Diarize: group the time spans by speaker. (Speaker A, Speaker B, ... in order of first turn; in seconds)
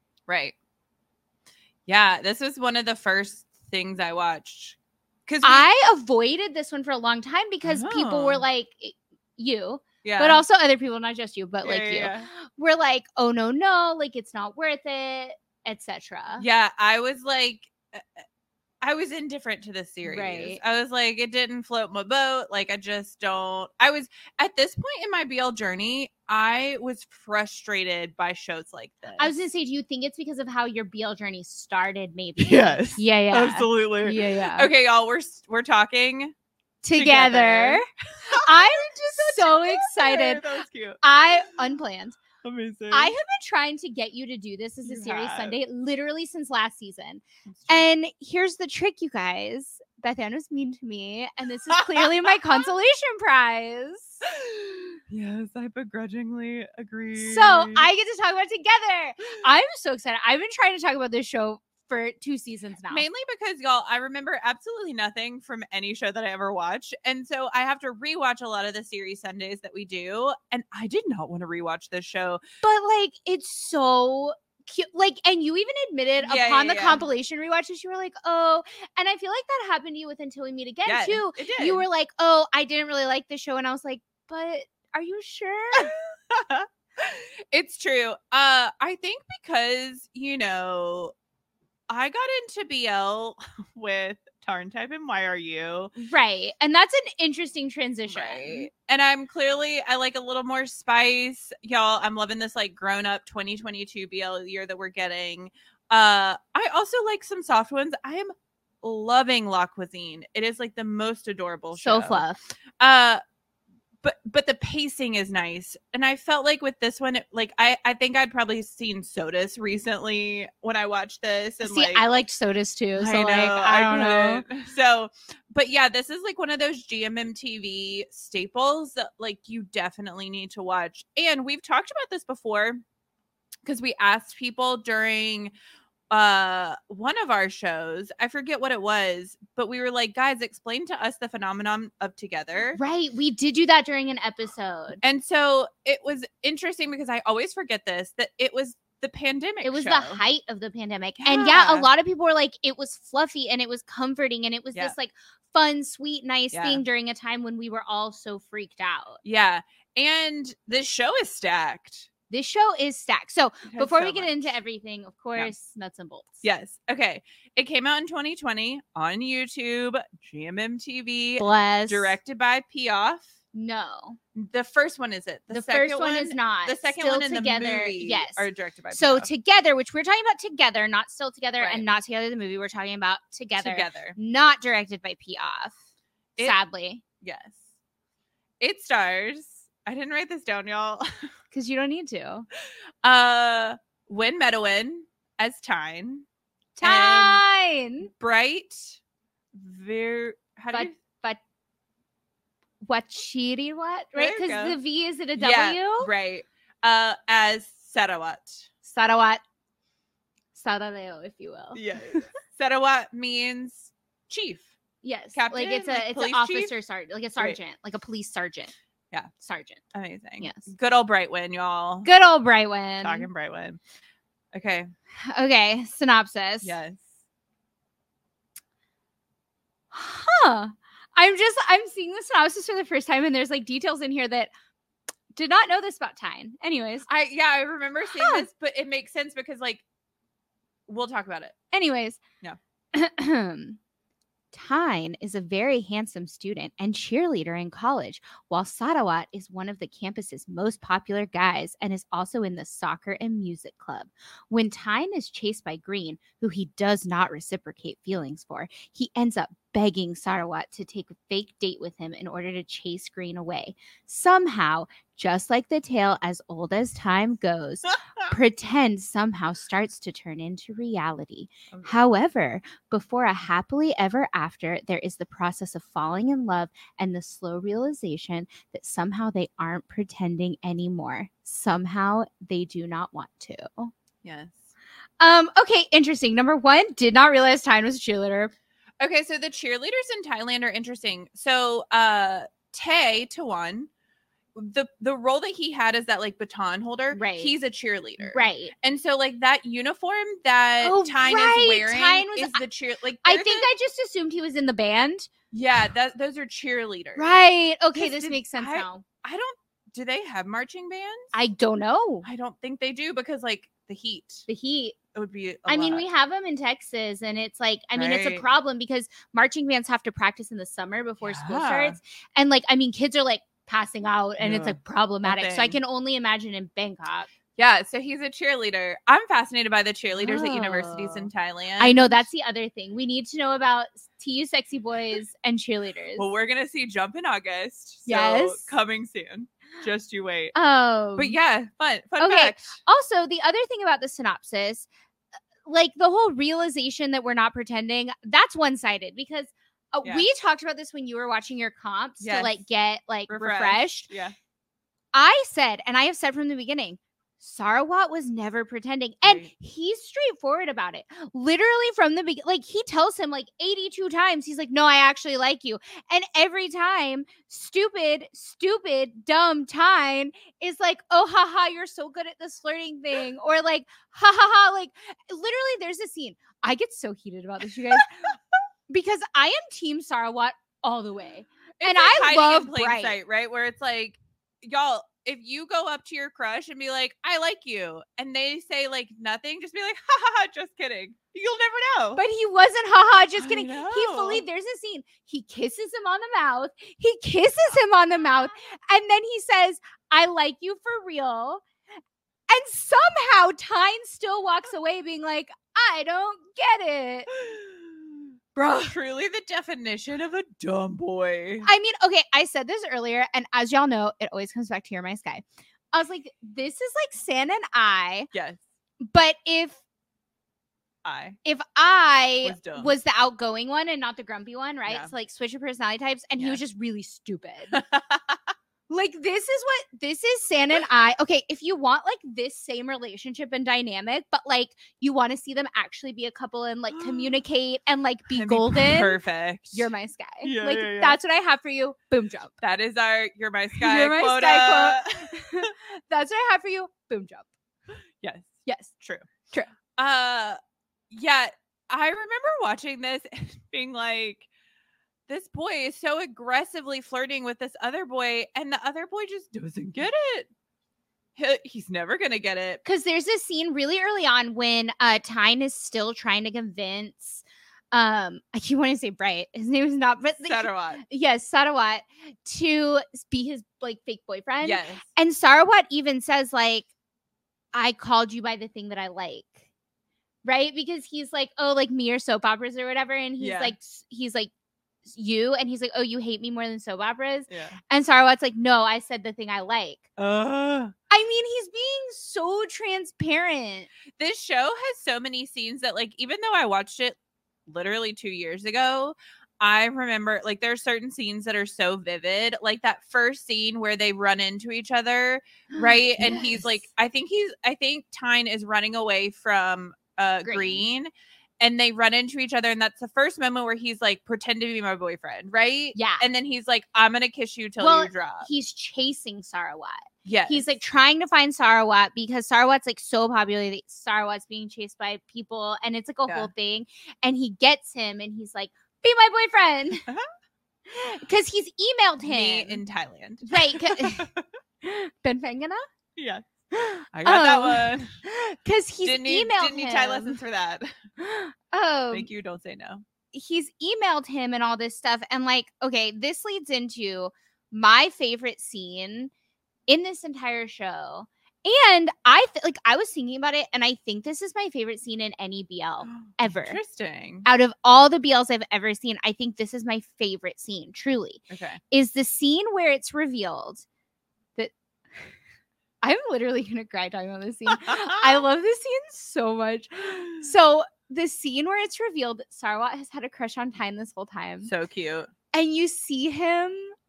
Speaker A: 0.3-0.6, 1.9-5.7, 7.6-8.4, 10.0-10.4, 11.6-12.3, 16.4-18.2, 18.8-29.4, 32.4-36.3, 37.0-41.0, 42.4-43.1, 44.9-45.6, 47.5-47.9, 51.7-52.6, 54.2-57.9, 62.9-72.4, 76.2-77.0, 80.9-81.9, 85.8-91.1, 91.9-95.9, 98.1-112.2, 112.8-113.2, 114.0-122.0, 123.0-132.8, 133.7-135.5, 136.1-142.8, 145.0-150.2, 151.2-151.9, 156.5-156.8, 159.2-162.1, 163.7-164.6, 166.4-173.3, 174.4-179.3, 181.6-181.9, 183.6-184.2, 187.2-187.6, 188.6-191.1, 193.0-196.3, 196.8-197.4, 198.0-199.0, 199.5-200.9, 204.2-204.8, 205.4-208.7, 211.7-214.7, 215.3-216.8, 219.9-222.1, 223.0-223.8, 224.5-224.9, 226.6-227.0, 237.1-239.8, 240.9-241.6, 271.7-272.0, 284.2-284.7, 289.0-293.9, 294.6-303.7, 305.5-307.4, 307.9-311.4, 312.2-314.5, 315.1-316.1, 317.9-318.4, 321.2-322.0, 324.4-325.8, 327.6-332.3, 336.2-340.5, 341.2-342.8, 352.2-352.6, 353.3-354.4, 359.2-359.5, 381.8-392.2, 393.4-394.4, 407.3-408.3, 408.9-411.7, 418.3-418.6, 421.1-421.4, 422.4-422.9, 424.9-425.1, 427.7-428.5, 436.9-437.4, 438.3-439.9, 440.4-441.2, 442.6-445.7, 448.2-449.3, 450.0-450.6, 451.1-454.5, 455.3-460.5, 461.4-462.8, 470.4-471.0, 474.6-475.0, 483.4-483.8, 487.5-487.8, 490.2-490.9, 494.2-518.5, 520.2-520.7, 532.2-534.5, 536.2-536.5, 537.1-538.1, 539.0-540.9, 542.1-543.0, 556.0-557.5, 561.5-561.8, 567.9-568.3, 574.6-575.3
Speaker B: 5.4-16.5, 20.0-20.6, 29.2-34.7, 36.8-40.4, 41.0-42.2, 42.9-54.2, 57.2-63.1, 72.6-85.9, 96.0-98.7, 111.8-112.5, 121.6-124.4, 142.8-145.0, 149.6-159.2, 162.3-166.4, 171.4-172.2, 173.5-174.2, 175.5-185.8, 186.4-187.0, 191.5-192.5, 196.8-198.1, 200.7-201.4, 202.8-206.1, 208.8-209.4, 210.5-212.2, 215.0-218.7, 219.4-219.8, 220.4-220.7, 222.1-223.3, 225.3-226.8, 229.9-234.5, 235.3-237.1, 238.1-238.5, 241.7-242.2, 242.9-243.8, 244.5-283.9, 285.2-288.5, 297.1-297.5, 298.2-298.7, 300.8-302.6, 303.2-305.3, 307.2-309.0, 311.3-312.3, 314.5-315.0, 315.7-327.3, 330.2-336.3, 338.1-338.7, 340.6-341.4, 342.2-344.9, 345.7-354.1, 355.1-378.4, 378.9-383.2, 392.2-401.6, 402.5-407.3, 408.6-408.9, 411.6-418.3, 419.0-419.8, 421.4-427.8, 428.9-439.2, 439.7-442.6, 443.8-447.5, 448.7-448.9, 462.9-476.9, 477.7-479.6, 480.4-484.5, 485.1-490.0, 491.1-493.9, 505.7-506.7, 510.4-510.9, 516.0-516.3, 517.8-530.1, 530.9-532.8, 533.5-534.3, 534.8-535.8, 536.7-540.4, 541.2-542.3, 543.3-549.3, 549.9-556.8, 557.5-563.9, 566.0-574.7, 575.5-576.9